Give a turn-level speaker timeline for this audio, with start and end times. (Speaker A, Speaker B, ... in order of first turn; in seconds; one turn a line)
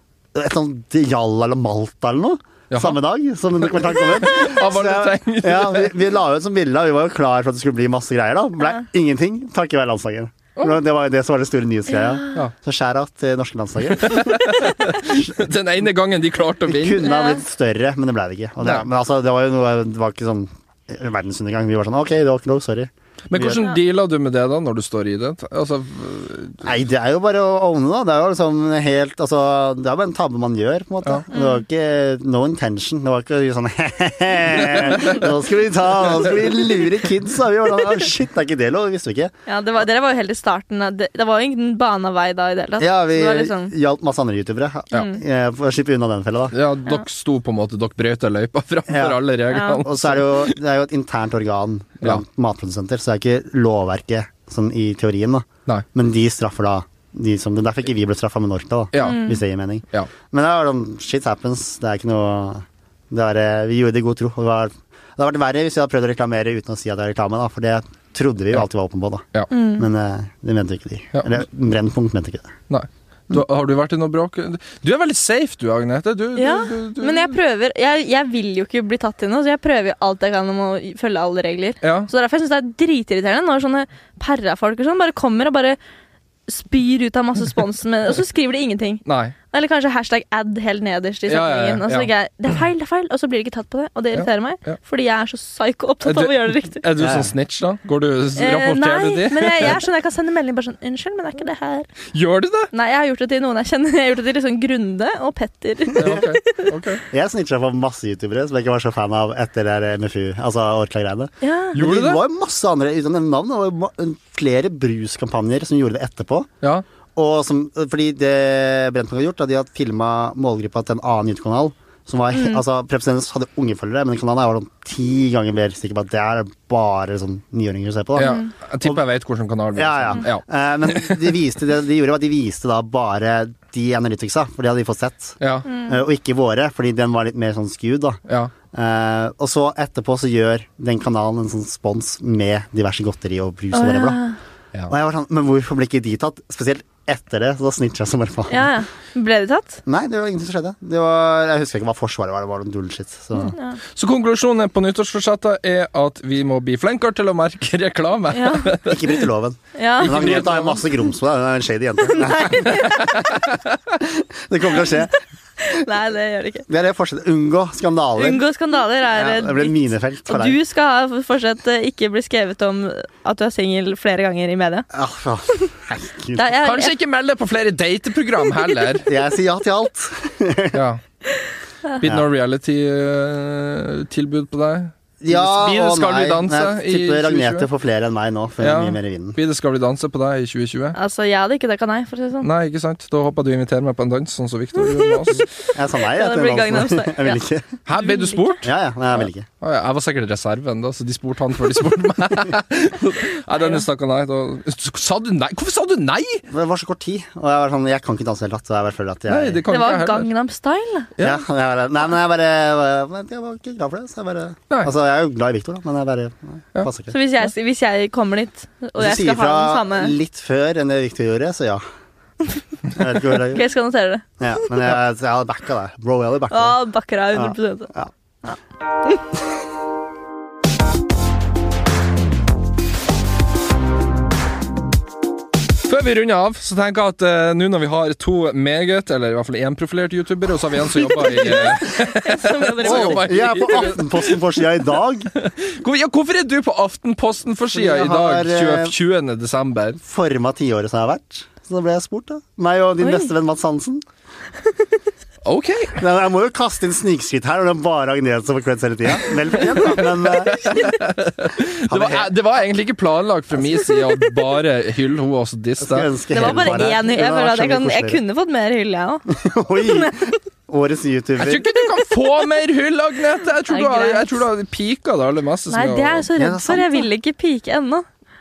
Speaker A: 0.3-15.3
Speaker B: 2.7-3.0
Speaker B: 3.7-5.9
Speaker B: 14.0-17.1
Speaker A: 16.7-23.6
Speaker C: 17.0-17.4
Speaker B: 23.3-26.7
Speaker A: 26.6-39.3
Speaker C: 31.3-31.6
Speaker B: 34.6-35.2
Speaker C: 39.5-43.7
Speaker A: 42.8-46.5
Speaker B: 46.5-50.5
Speaker A: 48.9-49.2
Speaker C: 49.5-49.8
Speaker A: 49.8-72.5
Speaker B: 58.9-59.2
Speaker C: 59.0-59.4
Speaker C: 69.5-69.9
Speaker B: 72.7-77.3
Speaker C: 76.4-85.8
Speaker B: 81.8-82.1
Speaker C: 86.5-96.9
Speaker B: 89.0-89.3
Speaker B: 91.3-92.1
Speaker B: 94.1-94.8
Speaker B: 96.0-99.8
Speaker A: 97.0-97.3
Speaker C: 98.4-101.9
Speaker B: 102.1-102.7
Speaker C: 102.7-106.7
Speaker B: 106.0-107.0
Speaker A: 107.1-116.5
Speaker C: 111.4-111.8
Speaker B: 111.7-112.2
Speaker A: 117.2-129.0
Speaker C: 122.3-122.6
Speaker B: 128.2-131.3
Speaker C: 128.2-128.5
Speaker A: 129.8-138.2
Speaker B: 135.4-135.7
Speaker C: 135.7-136.0
Speaker B: 138.3-138.5
Speaker A: 138.7-144.2
Speaker C: 143.7-144.4
Speaker A: 144.9-148.7
Speaker C: 148.5-149.8
Speaker A: 149.9-153.6
Speaker C: 153.4-153.8
Speaker B: 153.9-159.2
Speaker C: 158.3-158.8
Speaker A: 158.9-163.1
Speaker C: 159.8-160.4
Speaker B: 160.0-160.8
Speaker C: 162.1-163.3
Speaker B: 162.5-163.7
Speaker A: 164.0-165.1
Speaker C: 164.8-166.7
Speaker A: 166.7-168.4
Speaker C: 168.2-174.9
Speaker A: 169.1-170.6
Speaker A: 174.9-176.5
Speaker C: 176.3-176.9
Speaker B: 176.6-179.1
Speaker A: 179.0-180.8
Speaker B: 180.7-181.0
Speaker B: 182.0-187.7
Speaker A: 185.2-189.4
Speaker B: 188.6-191.0
Speaker C: 190.9-192.5
Speaker B: 192.4-195.4
Speaker C: 194.9-197.4
Speaker A: 195.7-197.7
Speaker B: 197.9-206.4
Speaker C: 198.0-198.6
Speaker A: 198.6-199.5
Speaker C: 203.6-203.8
Speaker A: 206.5-209.6
Speaker B: 209.3-210.3
Speaker C: 209.7-211.1
Speaker A: 211.2-217.1
Speaker C: 217.1-220.1
Speaker A: 219.0-221.8
Speaker A: 222.9-223.7
Speaker C: 223.5-224.2
Speaker A: 224.4-226.8
Speaker C: 226.5-227.9
Speaker A: 227.3-228.1
Speaker B: 235.8-244.4
Speaker C: 241.0-243.9
Speaker A: 242.8-245.3
Speaker B: 245.3-250.0
Speaker A: 247.7-248.9
Speaker A: 250.0-254.0
Speaker C: 253.0-253.3
Speaker B: 255.4-256.0
Speaker A: 256.0-260.9
Speaker B: 259.8-266.9
Speaker A: 261.9-262.3
Speaker A: 265.8-268.2
Speaker C: 266.3-269.3
Speaker A: 269.3-271.7
Speaker C: 269.8-270.2
Speaker B: 271.4-276.3
Speaker C: 272.2-272.4
Speaker C: 273.7-274.4
Speaker C: 275.7-278.1
Speaker A: 276.4-277.1